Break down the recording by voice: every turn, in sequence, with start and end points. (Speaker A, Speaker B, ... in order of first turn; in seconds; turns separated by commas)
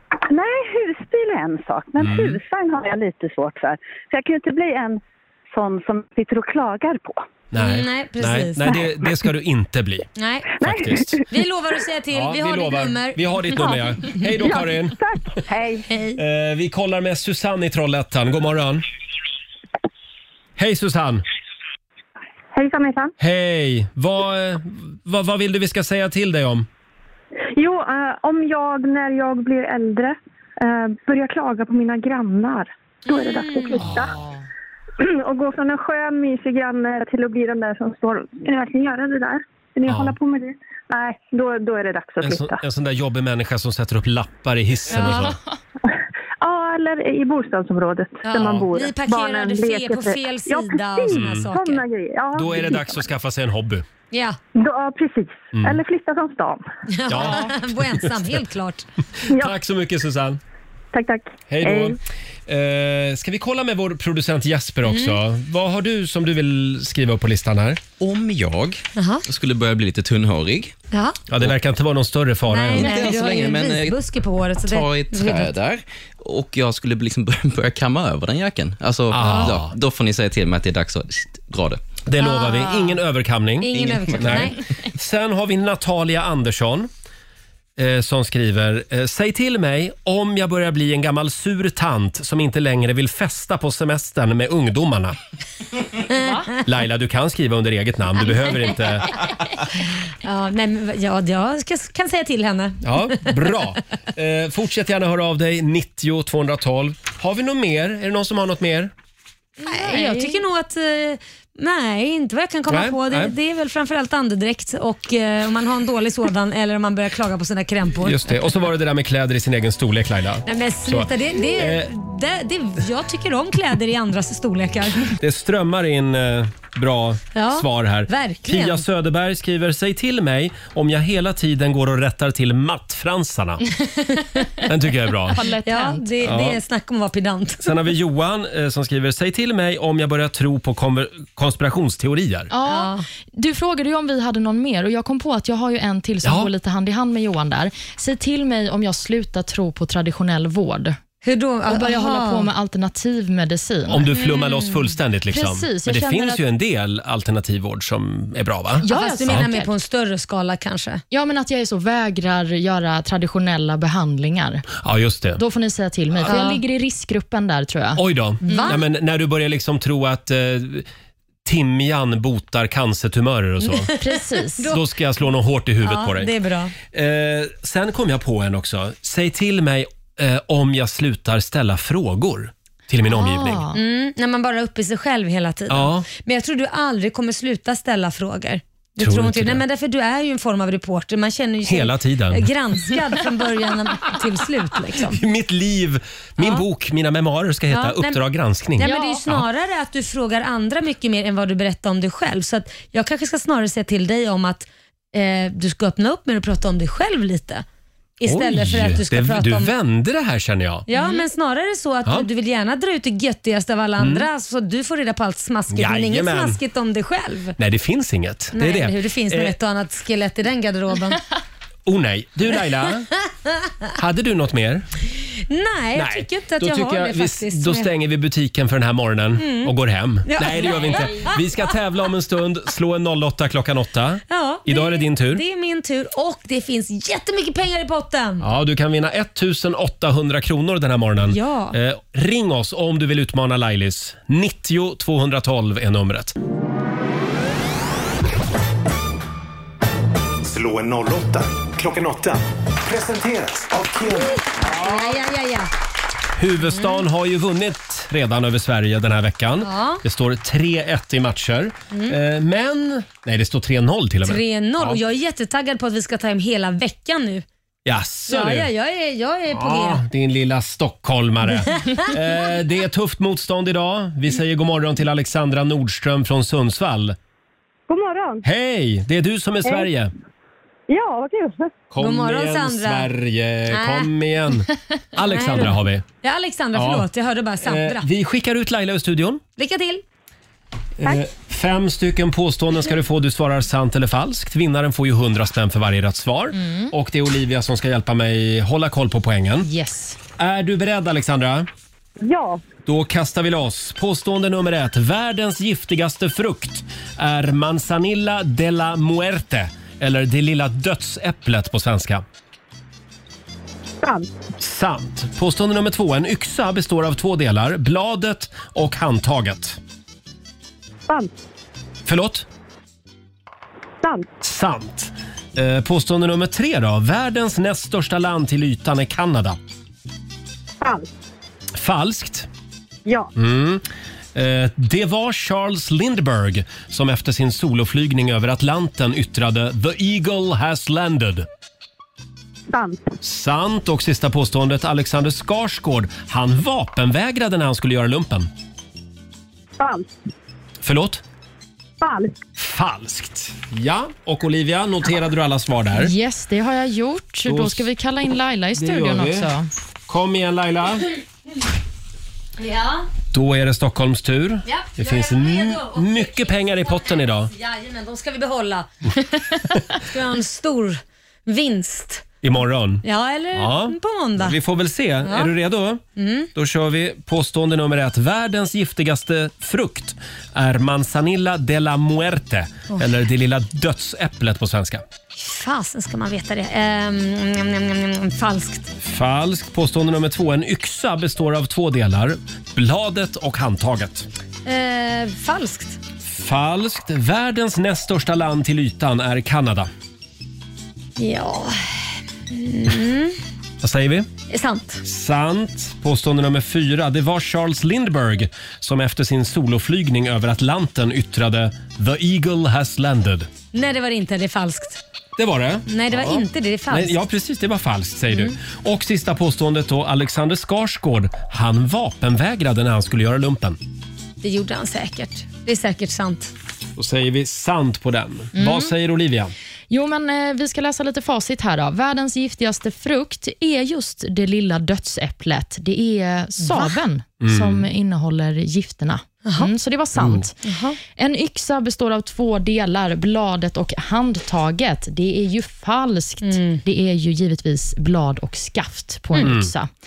Speaker A: 0.3-7.2, Speaker B: 2.0-2.4, Speaker B: 7.5-11.2, Speaker C: 7.5-8.8, Speaker C: 10.2-10.6, Speaker C: 11.3-14.2, Speaker B: 12.1-15.0, Speaker A: 14.4-15.8, Speaker C: 15.9-16.2, Speaker B: 16.1-18.8, Speaker B: 20.6-21.2, Speaker D: 22.5-23.1, Speaker B: 23.2-26.7, Speaker D: 27.5-34.1, Speaker C: 33.1-33.9, Speaker B: 33.8-34.1, Speaker D: 35.0-42.6, Speaker B: 39.9-40.2, Speaker B: 42.2-45.4, Speaker C: 44.9-45.3, Speaker D: 46.4-53.1, Speaker C: 48.2-51.8, Speaker B: 48.3-48.7, Speaker B: 51.1-51.5, Speaker B: 52.3-53.8, Speaker C: 54.1-54.4, Speaker D: 54.5-56.6, Speaker B: 55.5-55.8, Speaker C: 56.9-58.9, Speaker B: 57.1-58.1, Speaker B: 59.3-60.4, Speaker D: 60.9-61.9, Speaker B: 61.5-67.8, Speaker C: 64.9-65.2, Speaker E: 68.0-70.8, Speaker C: 69.0-69.2, Speaker C: 70.9-71.2, Speaker B: 71.3-73.0, Speaker C: 72.5-75.5, Speaker E: 72.7-74.0, Speaker E: 74.6-82.0, Speaker B: 79.1-79.7, Speaker C: 79.2-79.5, Speaker B: 82.0-86.9, Speaker F: 82.2-82.9, Speaker C: 83.6-84.6, Speaker E: 83.7-84.5, Speaker B: 87.8-95.2, Speaker B: 96.6-99.2, Speaker C: 100.2-103.5, Speaker B: 102.8-108.9, Speaker C: 109.6-118.3, Speaker F: 109.8-110.4, Speaker B: 112.7-113.3, Speaker B: 118.0-121.9, Speaker C: 120.4-125.1, Speaker B: 125.2-133.6, Speaker C: 127.3-128.8, Speaker B: 134.7-135.4, Speaker F: 135.3-136.1, Speaker C: 135.6-137.7, Speaker B: 136.2-136.6, Speaker B: 137.6-142.5, Speaker F: 142.5-151.0, Speaker C: 142.6-143.0, Speaker B: 146.2-146.5, Speaker C: 151.2-152.5, Speaker F: 151.7-154.1, Speaker B: 153.9-159.5, Speaker C: 154.2-154.8, Speaker F: 155.3-156.4, Speaker F: 158.8-159.7, Speaker C: 158.8-161.0, Speaker F: 161.1-164.7, Speaker B: 164.8-165.4, Speaker F: 165.4-168.7, Speaker C: 166.3-166.6, Speaker B: 167.9-170.8, Speaker C: 168.4-168.8, Speaker B: 171.4-173.9, Speaker C: 173.7-174.8, Speaker F: 174.0-174.7, Speaker B: 174.7-176.3, Speaker C: 175.8-176.7, Speaker B: 176.9-183.6, Speaker F: 183.1-183.8, Speaker C: 183.7-195.2, Speaker B: 185.7-186.1, Speaker B: 189.0-189.6, Speaker B: 191.7-192.5, Speaker B: 195.0-199.5, Speaker C: 197.7-198.2, Speaker C: 198.8-207.6, Speaker C: 208.2-209.7, Speaker B: 208.2-210.9, Speaker C: 210.9-217.6, Speaker B: 214.0-214.3, Speaker B: 215.7-216.6, Speaker B: 217.6-219.5, Speaker C: 218.5-221.2, Speaker B: 221.8-223.1, Speaker B: 224.0-224.9, Speaker C: 225.5-227.9, Speaker B: 225.9-235.4, Speaker C: 229.4-229.7, Speaker C: 230.3-231.4, Speaker C: 234.3-238.4, Speaker B: 238.4-246.3, Speaker C: 241.3-241.8, Speaker G: 250.4-254.4, Speaker C: 254.2-255.7, Speaker B: 256.4-265.0, Speaker C: 256.7-257.0, Speaker C: 259.6-260.0, Speaker C: 261.9-262.2, Speaker C: 264.2-267.4, Speaker B: 267.9-268.7, Speaker C: 268.3-270.0, Speaker B: 269.5-277.1, Speaker C: 271.7-272.1, Speaker H: 277.9-278.4, Speaker B: 278.4-280.1, Speaker H: 280.9-281.7, Speaker B: 281.9-286.0, Speaker C: 282.0-283.1, Speaker C: 283.7-284.1, Speaker C: 285.3-288.1, Speaker B: 286.7-287.1, Speaker B: 287.6-289.4, Speaker C: 289.6-290.0, Speaker B: 291.0-299.7, Speaker F: 296.6-296.9, Speaker F: 299.6-300.2, Speaker B: 300.4-301.7, Speaker H: 302.2-302.6, Speaker B: 302.9-312.2, Speaker B: 314.6-319.8, Speaker B: 322.1-322.4, Speaker B: 324.4-329.6, Speaker B: 331.8-332.5, Speaker B: 333.4-333.8, Speaker B: 334.3-341.5, Speaker H: 342.7-343.0, Speaker B: 343.2-348.5, Speaker H: 349.8-350.0, Speaker B: 350.8-351.2, Speaker H: 352.0-352.3, Speaker B: 352.6-356.1, Speaker F: 355.9-359.7, Speaker B: 357.4-357.9, Speaker B: 358.7-359.5, Speaker B: 360.1-361.1, Speaker C: 362.6-363.1, Speaker B: 363.3-367.5, Speaker C: 364.6-368.9, Speaker C: 369.9-372.2, Speaker B: 372.4-376.0, Speaker C: 373.0-374.6, Speaker C: 375.2-375.5, Speaker C: 376.2-376.5, Speaker B: 376.5-385.0, Speaker C: 385.3-388.9, Speaker B: 389.0-394.3, Speaker C: 394.6-396.0, Speaker B: 396.3-399.9, Speaker C: 401.2-403.4, Speaker B: 403.8-404.3, Speaker C: 404.5-405.0, Speaker B: 405.0-413.5, Speaker C: 413.7-415.0, Speaker B: 415.4-423.8, Speaker C: 415.9-417.2, Speaker C: 424.4-426.5, Speaker B: 427.0-429.5, Speaker F: 428.6-428.9, Speaker F: 429.9-440.6, Speaker C: 436.6-436.9, Speaker B: 437.4-437.9, Speaker C: 439.4-439.7, Speaker B: 440.2-440.4, Speaker C: 440.6-441.0, Speaker F: 441.1-449.9, Speaker C: 446.4-446.8, Speaker B: 449.4-449.7